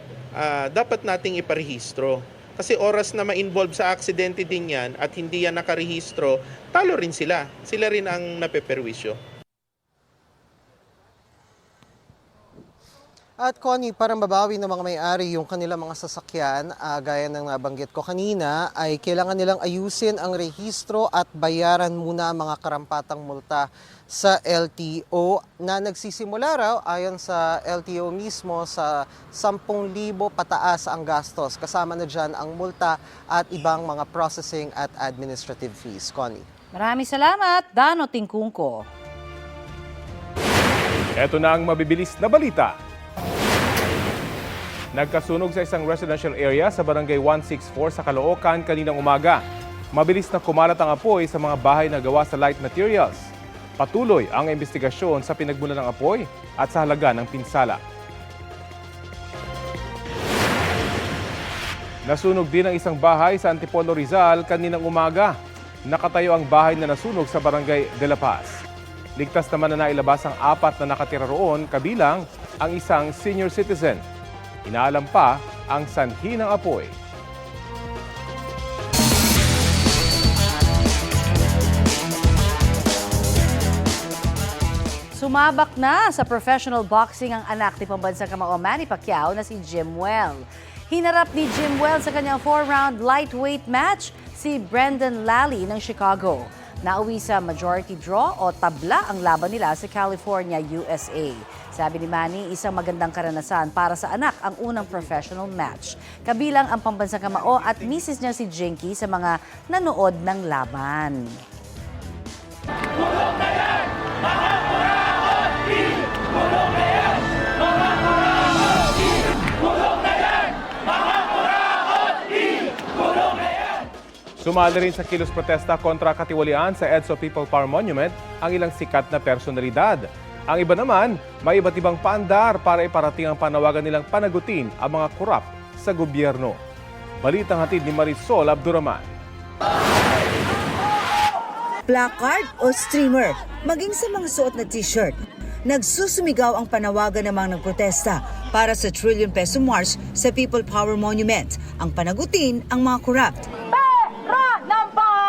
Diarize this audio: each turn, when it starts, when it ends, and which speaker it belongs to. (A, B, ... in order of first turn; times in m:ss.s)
0:00.4-0:09.2 A
0:13.4-0:36.5 B
0:36.7-0:38.9 C
0:41.2-0:42.7 D
0:44.9-0:49.4 D
0:49.9-0:57.8 D
1:02.0-1:05.3 D
1:05.9-1:08.6 D
1:09.2-1:14.0 D
1:14.6-1:16.9 D
1:25.2-1:51.2 C
2:04.4-2:16.6 D
2:17.2-2:19.1 D
2:21.9-2:33.5 E